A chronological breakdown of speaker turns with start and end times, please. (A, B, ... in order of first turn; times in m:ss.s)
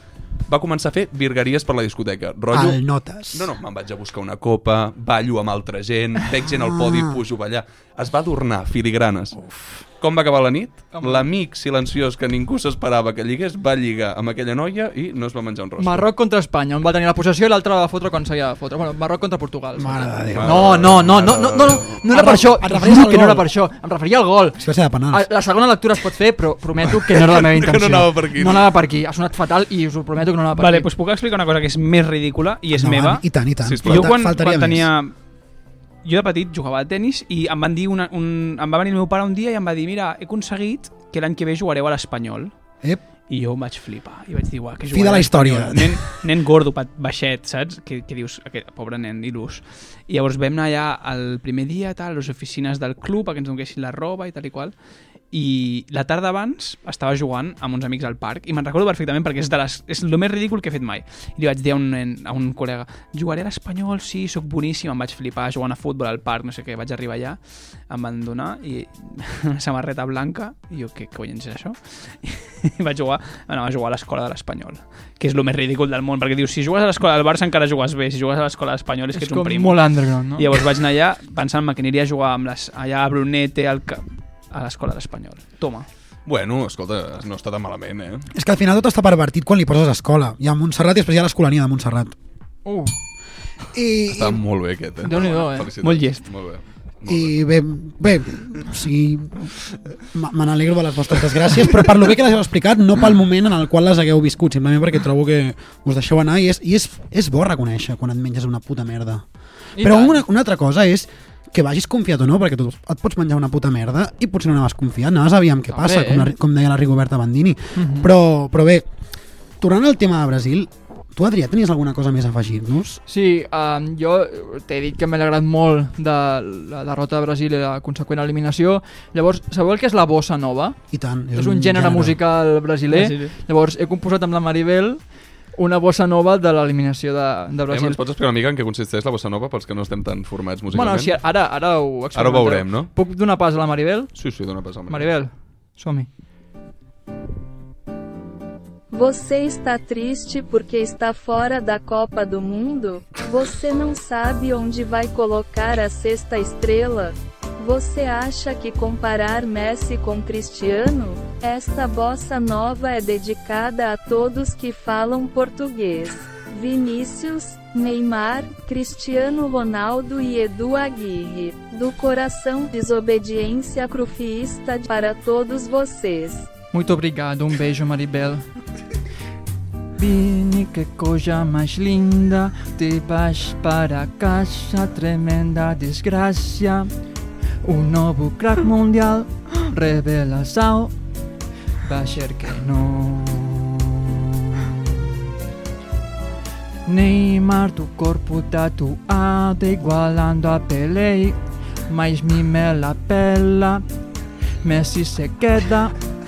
0:00.5-0:09.4 A
0:02.5-0:03.5 B
0:06.6-0:07.2 B
0:09.4-0:09.8 B
0:10.0-0:16.1 A
0:10.9-0:11.3 C
0:15.8-0:30.9 C
0:19.8-0:21.1 B
0:20.3-0:22.0 A
0:22.0-0:23.5 B
0:24.6-0:25.3 B
0:27.2-0:28.7 A
0:30.6-0:33.2 D
0:32.7-0:34.9 B
0:33.6-0:34.1 A
0:33.8-0:35.1 D
0:36.0-0:42.5 D
0:43.3-0:54.7 D
0:44.9-0:46.0 B
0:55.3-1:07.4 D
1:07.9-1:19.8 D
1:19.1-1:20.5 C
1:20.4-1:25.9 D
1:26.3-1:28.3 A
1:28.3-1:32.2 B
1:32.6-1:32.9 C
1:33.7-1:34.4 B
1:34.1-1:37.4 A
1:35.0-1:35.7 C
1:35.8-1:36.2 D
1:37.1-1:49.2 B
1:49.8-1:50.2 C
1:49.8-1:58.9 B
1:55.7-1:56.3 C
1:57.8-1:58.1 C
1:59.6-2:03.0 B
2:03.1-2:10.8 C
2:10.9-2:12.2 B
2:11.4-2:15.0 C
2:12.9-2:13.3 D
2:15.6-2:18.0 C
2:17.7-2:21.2 A
2:20.7-2:24.1 C
2:22.1-2:22.9 A
2:24.2-2:25.1 A
2:24.9-2:26.1 C
2:28.9-2:56.5 E
2:56.7-2:58.4 C
3:00.0-3:06.9 C
3:07.6-3:10.9 C
3:11.8-3:15.2 C
3:16.9-3:23.8 C
3:24.6-3:26.0 C